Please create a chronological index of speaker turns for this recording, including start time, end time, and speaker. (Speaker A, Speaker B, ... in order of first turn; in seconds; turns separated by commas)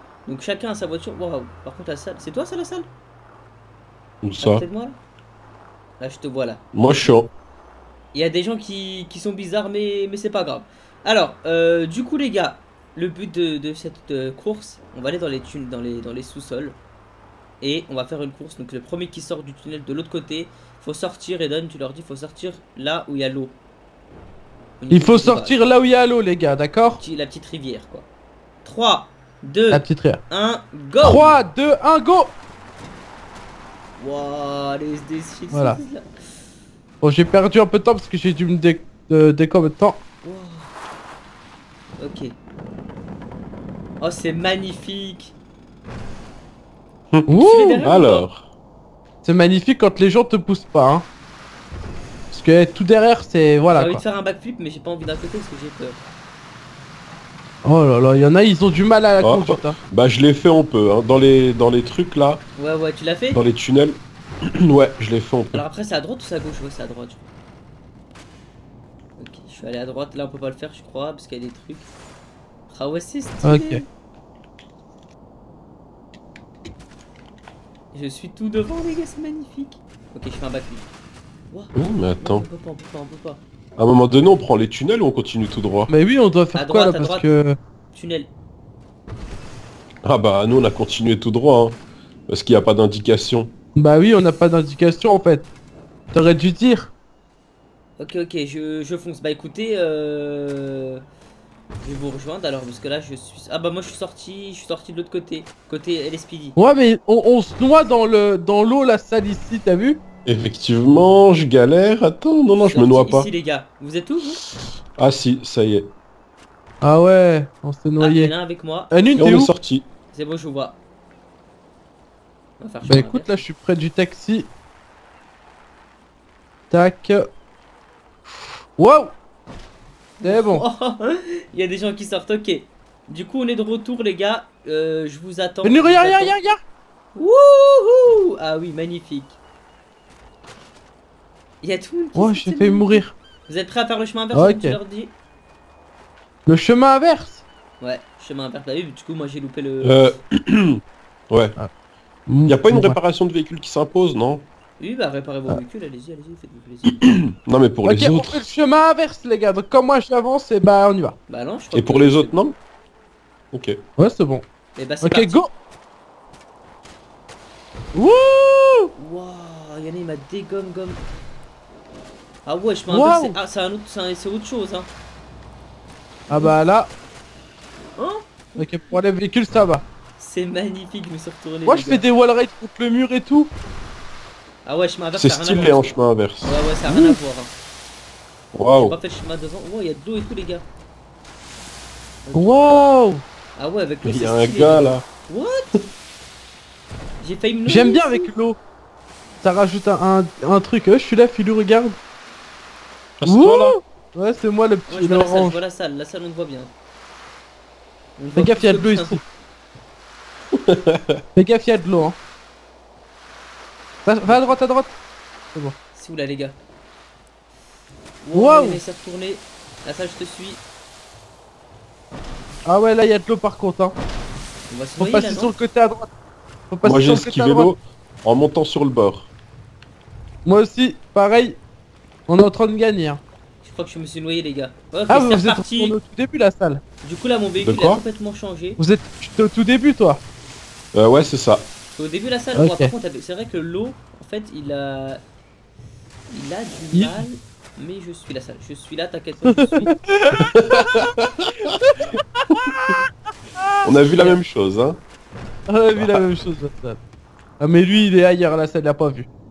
Speaker A: 0.2-2.9, Speaker B: 4.2-4.6, Speaker A: 4.4-5.0, Speaker A: 6.0-7.1, Speaker B: 6.7-7.3, Speaker A: 8.1-16.8, Speaker A: 17.6-23.6, Speaker A: 24.8-25.6, Speaker C: 24.9-27.0, Speaker A: 27.0-28.1, Speaker A: 28.6-31.3, Speaker C: 29.7-30.2, Speaker C: 31.0-32.3, Speaker A: 34.0-36.1, Speaker C: 35.5-35.8, Speaker C: 37.0-40.0, Speaker A: 40.2-40.7, Speaker A: 42.0-42.4, Speaker A: 44.0-45.4, Speaker B: 47.1-48.5, Speaker C: 47.3-47.9, Speaker A: 47.3-48.3, Speaker C: 49.2-51.1, Speaker C: 52.3-54.0, Speaker A: 53.7-56.1, Speaker C: 57.6-59.8, Speaker B: 59.2-62.4, Speaker A: 62.6-63.4, Speaker B: 63.3-64.0, Speaker B: 64.6-65.6, Speaker A: 65.5-67.3, Speaker A: 69.2-71.9, Speaker A: 72.7-73.8, Speaker C: 73.4-73.8, Speaker A: 77.9-80.9, Speaker A: 81.5-83.4, Speaker B: 81.7-82.5, Speaker B: 83.8-85.9, Speaker C: 85.9-87.5, Speaker A: 86.5-87.3, Speaker A: 87.9-88.3, Speaker B: 90.0-93.5, Speaker C: 93.7-95.5, Speaker C: 96.1-96.9, Speaker A: 98.0-101.0, Speaker A: 101.8-106.6, Speaker C: 106.5-110.0, Speaker B: 110.2-113.3, Speaker A: 112.6-114.4, Speaker B: 115.0-115.9, Speaker C: 116.8-118.3, Speaker A: 118.0-119.0, Speaker C: 118.9-119.5, Speaker B: 119.2-119.8, Speaker A: 120.1-120.8, Speaker A: 122.6-123.4, Speaker C: 122.8-124.5, Speaker C: 126.7-127.3, Speaker C: 128.8-129.1, Speaker A: 130.2-136.3, Speaker C: 130.2-130.6, Speaker C: 135.6-136.6, Speaker A: 137.1-139.4, Speaker A: 141.6-145.1, Speaker C: 142.1-143.1, Speaker C: 144.3-144.8, Speaker C: 146.4-147.4, Speaker A: 147.8-150.2, Speaker B: 149.8-151.6, Speaker C: 152.3-153.0, Speaker B: 152.5-154.4, Speaker A: 154.8-157.0, Speaker B: 156.9-158.5, Speaker C: 157.8-161.2, Speaker A: 161.3-162.4, Speaker B: 161.7-162.6, Speaker B: 163.5-163.8, Speaker C: 164.0-164.5, Speaker A: 164.7-165.4, Speaker C: 165.0-165.5, Speaker C: 167.9-168.9, Speaker A: 168.9-171.0, Speaker A: 172.4-174.9, Speaker C: 172.9-173.4, Speaker C: 176.3-176.9, Speaker A: 176.3-176.6, Speaker A: 177.9-178.8, Speaker C: 178.6-179.8, Speaker A: 180.2-182.0, Speaker C: 181.7-183.5, Speaker A: 184.6-187.5, Speaker B: 185.1-186.6, Speaker C: 186.9-187.2, Speaker B: 188.5-189.0, Speaker A: 188.7-190.7, Speaker A: 192.2-192.8, Speaker C: 192.3-193.2, Speaker A: 193.6-195.8, Speaker B: 194.0-195.0, Speaker A: 197.2-198.3, Speaker C: 197.7-198.6, Speaker C: 199.4-202.0, Speaker B: 203.2-203.8, Speaker C: 203.2-205.6, Speaker A: 204.9-206.7, Speaker A: 208.2-209.2, Speaker C: 208.3-209.2, Speaker B: 210.6-211.1, Speaker C: 211.3-212.2, Speaker C: 214.0-215.0, Speaker A: 214.2-214.6, Speaker A: 215.9-216.6, Speaker A: 218.2-220.6, Speaker C: 218.3-218.8, Speaker C: 222.7-224.0, Speaker A: 224.7-225.5, Speaker C: 225.0-226.1, Speaker C: 226.7-227.7, Speaker B: 226.8-229.3, Speaker C: 230.4-231.6, Speaker C: 232.3-233.2, Speaker A: 233.6-235.9, Speaker C: 235.1-236.8, Speaker A: 237.0-238.8, Speaker B: 237.6-238.0, Speaker C: 238.8-240.2, Speaker B: 240.9-241.7, Speaker A: 241.9-245.2, Speaker C: 242.6-242.9, Speaker A: 246.3-249.9, Speaker C: 246.9-247.2, Speaker C: 249.4-250.8, Speaker B: 250.4-251.7, Speaker C: 251.9-252.9, Speaker C: 253.6-253.9, Speaker B: 253.8-255.0, Speaker A: 254.1-254.4, Speaker C: 255.7-257.0, Speaker B: 255.9-256.2, Speaker C: 257.6-259.3